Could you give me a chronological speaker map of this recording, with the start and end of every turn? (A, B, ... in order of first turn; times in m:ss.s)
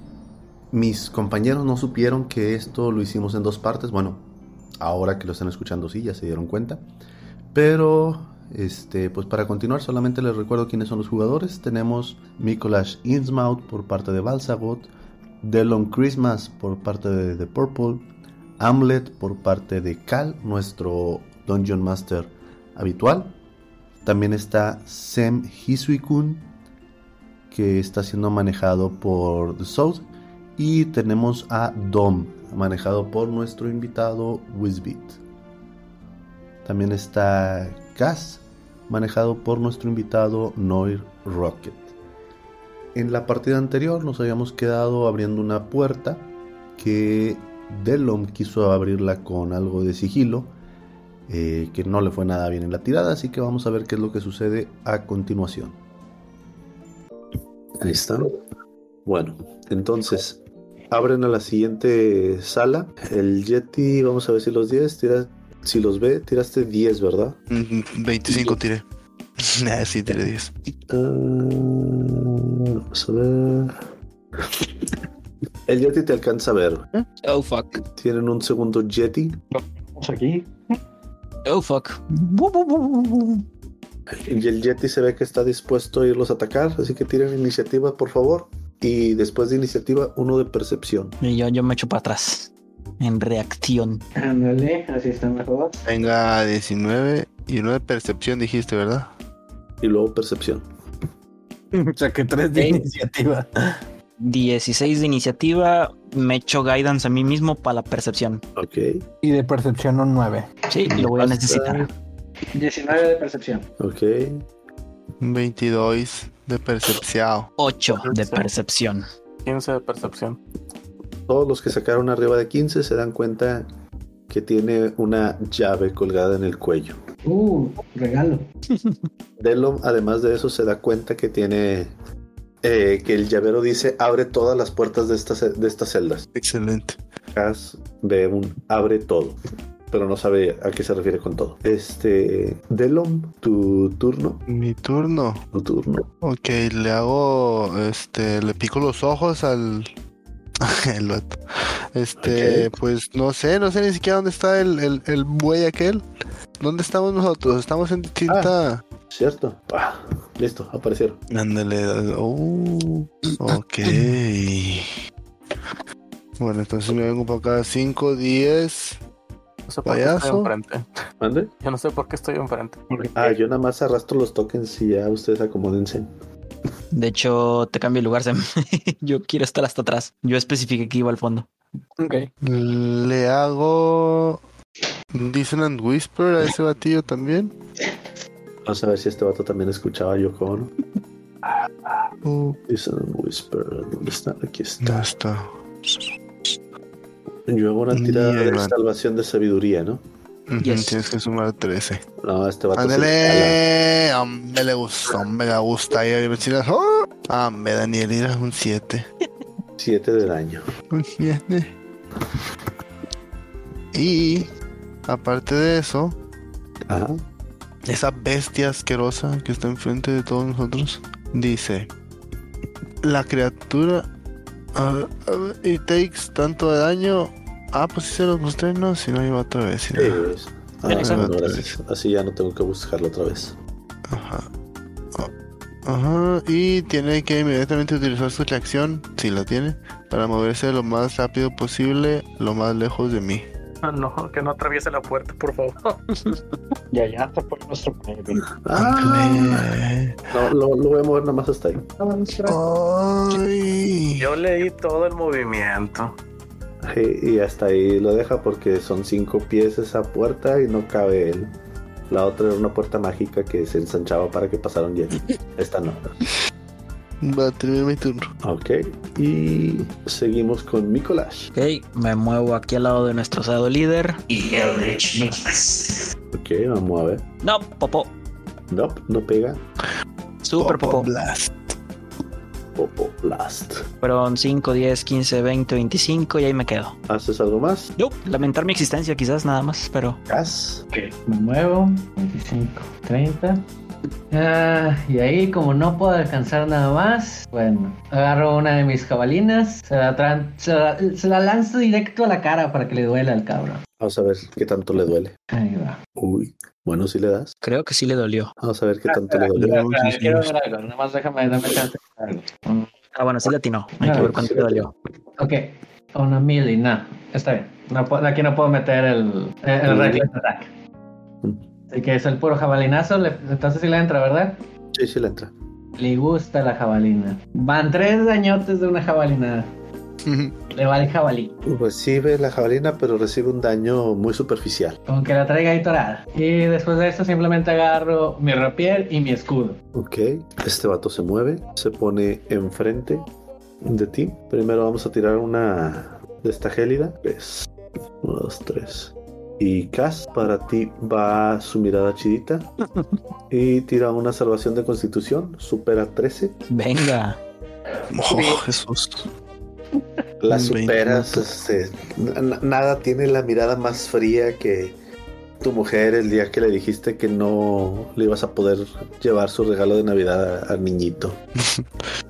0:00.7-0:04.3 A
0:04.8-0:06.8 A
0:07.5-0:14.9 A
0:15.4-0:18.1 A
0:18.6-0:23.4 A
0:24.0-0:26.5 A
0:27.5-0:35.2 A
0:36.6-0:41.9 A
0:43.0-0:50.5 A
0:51.3-0:55.8 A
0:57.8-0:58.4 A
0:59.1-1:00.4 A
1:00.9-1:07.4 A
1:07.5-1:08.8 B
1:08.3-1:08.6 A
1:09.4-1:10.5 B
1:10.9-1:13.8 A
1:15.7-1:16.9 A
1:17.2-1:17.8 C
1:18.0-1:19.4 A
1:19.5-1:20.8 D
1:21.5-1:23.4 C
1:24.2-1:31.2 A
1:31.2-1:34.0 C
1:34.2-1:35.8 E
1:35.8-1:39.1 B
1:39.8-1:40.7 A
1:41.7-1:43.8 F
1:42.5-1:42.9 C
1:44.2-1:48.4 C
1:48.6-1:49.1 A
1:49.2-1:50.5 F
1:50.7-1:51.9 C
1:50.9-1:51.9 A
1:52.6-1:53.7 E
1:53.8-1:54.4 A
1:55.2-1:57.5 B
1:57.6-1:59.0 C
1:58.1-1:58.5 G
1:59.4-2:00.4 G
2:01.3-2:03.7 A
2:04.3-2:07.0 A
2:07.3-2:08.4 E
2:09.4-2:11.9 A
2:12.6-2:16.3 A
2:16.4-2:17.0 B
2:17.3-2:19.4 A
2:19.9-2:24.4 A
2:24.5-2:25.4 B
2:25.5-2:26.1 A
2:26.2-2:29.9 B
2:30.6-2:31.4 B
2:31.9-2:36.0 B
2:32.2-2:32.7 A
2:36.6-2:38.8 B
2:38.3-2:38.5 A
2:39.1-2:41.2 A
2:41.3-2:44.9 B
2:46.4-2:49.0 B
2:49.7-2:50.9 G
2:49.9-2:50.5 B
2:51.2-2:51.5 A
2:51.6-2:52.8 G
2:52.9-2:53.4 D
2:53.2-2:56.1 A
2:56.9-3:01.5 C
3:02.0-3:02.3 F
3:02.4-3:04.4 B
3:05.1-3:07.5 B
3:08.6-3:10.7 A
3:12.2-3:12.6 B
3:12.7-3:15.1 A
3:14.8-3:16.1 B
3:17.5-3:20.0 A
3:17.9-3:18.8 B
3:20.5-3:22.0 B
3:20.6-3:21.0 C
3:22.2-3:23.6 A
3:22.7-3:29.1 B
3:29.8-3:30.7 A
3:30.9-3:31.7 B
3:33.9-3:34.5 B
3:35.1-3:36.2 B
3:36.9-3:37.2 A
3:37.9-3:41.9 B
3:43.0-3:44.1 B
3:44.8-3:50.3 B
3:50.0-3:53.6 A
3:50.9-3:51.4 C
3:51.0-3:51.7 B
3:54.1-3:54.5 B
3:55.9-4:03.5 B
4:03.8-4:06.0 G
4:06.9-4:08.5 D
4:08.6-4:09.7 A
4:08.8-4:10.2 B
4:10.3-4:11.9 A
4:12.0-4:12.6 D
4:12.5-4:14.3 B
4:14.2-4:16.1 G
4:16.8-4:21.5 A
4:22.1-4:26.1 A
4:27.2-4:28.3 B
4:28.4-4:31.5 A
4:31.5-4:36.1 C
4:36.3-4:37.2 A
4:37.4-4:38.1 C
4:38.7-4:39.6 A
4:40.4-4:41.1 C
4:40.6-4:41.6 B
4:42.8-4:43.9 A
4:44.0-4:47.0 C
4:47.1-4:47.9 A
4:48.0-4:50.2 C
4:50.3-4:50.8 A
4:50.9-4:53.6 E
4:54.3-5:03.8 E
5:04.0-5:05.4 A
5:05.5-5:06.0 E
5:06.2-5:07.6 A
5:07.6-5:08.5 C
5:08.6-5:09.8 A
5:09.1-5:12.9 E
5:09.6-5:10.5 B
5:13.1-5:14.9 C
5:14.0-5:14.3 E
5:14.0-5:14.9 A
5:15.4-5:20.7 E
5:19.9-5:20.3 A
5:21.9-5:24.6 E
5:24.9-5:25.5 A
5:26.0-5:29.7 E
5:30.2-5:30.6 B
5:30.7-5:31.5 E
5:31.7-5:35.0 A
5:35.1-5:39.8 E
5:40.0-5:43.3 A
5:43.8-5:47.7 A
5:48.2-5:52.7 A
5:53.5-5:56.6 A
5:56.7-5:57.4 C
5:58.1-5:59.3 B
6:00.4-6:05.0 A
6:00.5-6:01.5 B
6:05.6-6:11.4 A
6:11.6-6:11.9 B